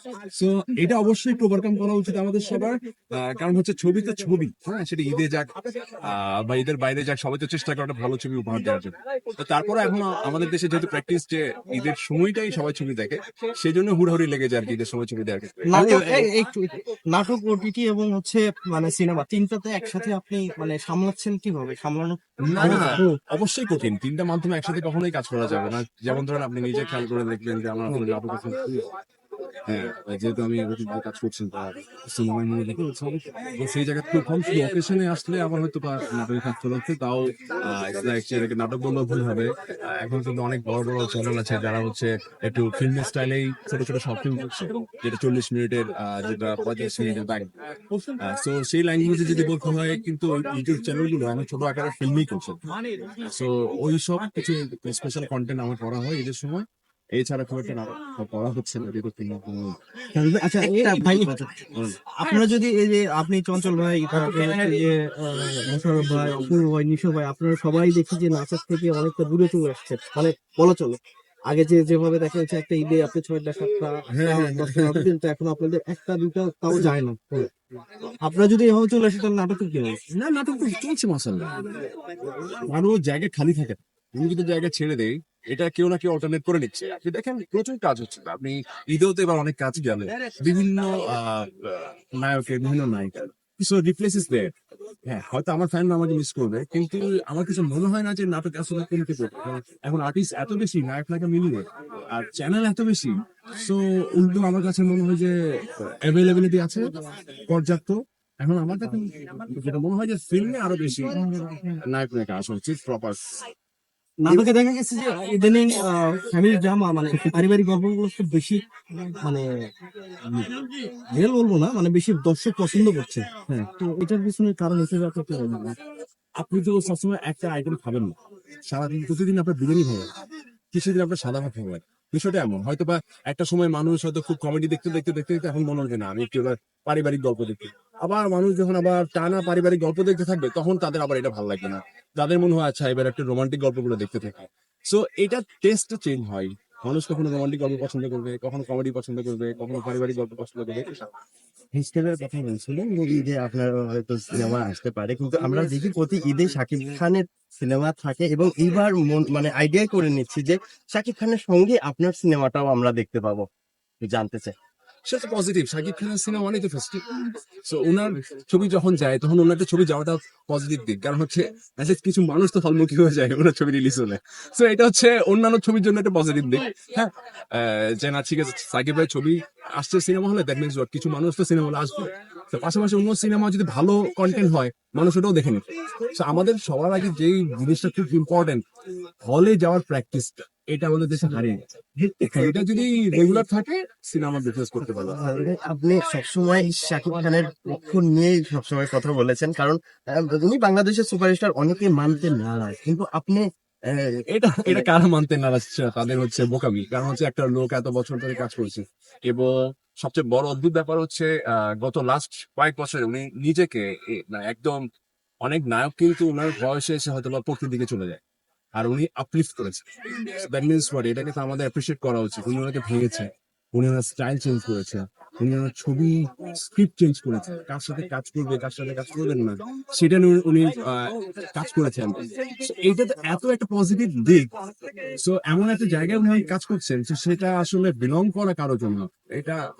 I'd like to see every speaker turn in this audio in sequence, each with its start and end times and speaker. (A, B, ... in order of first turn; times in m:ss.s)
0:00.3-0:16.3 A
0:15.7-0:23.1 B
0:22.4-0:28.9 A
0:29.7-0:47.5 A
0:48.1-0:52.6 A
0:53.2-0:59.8 A
1:00.1-1:17.5 B
1:00.6-1:01.9 A
1:04.2-1:04.5 A
1:14.1-1:15.1 A
1:18.2-1:20.0 B
1:20.1-1:21.8 A
1:22.6-1:34.5 A
1:35.0-1:46.9 A
1:47.5-1:51.2 A
1:51.8-1:53.2 A
1:54.2-1:59.5 B
2:01.1-2:05.8 B
2:06.4-2:08.1 A
2:08.7-2:10.1 A
2:10.7-2:31.1 A
2:31.7-2:43.4 C
2:44.0-2:44.5 C
2:45.0-2:47.0 A
2:47.6-3:08.6 A
3:09.2-3:15.2 A
3:15.0-3:24.9 C
3:24.3-3:29.5 A
3:30.0-3:34.8 A
3:35.4-3:38.2 A
3:38.8-3:54.5 A
3:55.0-3:59.6 A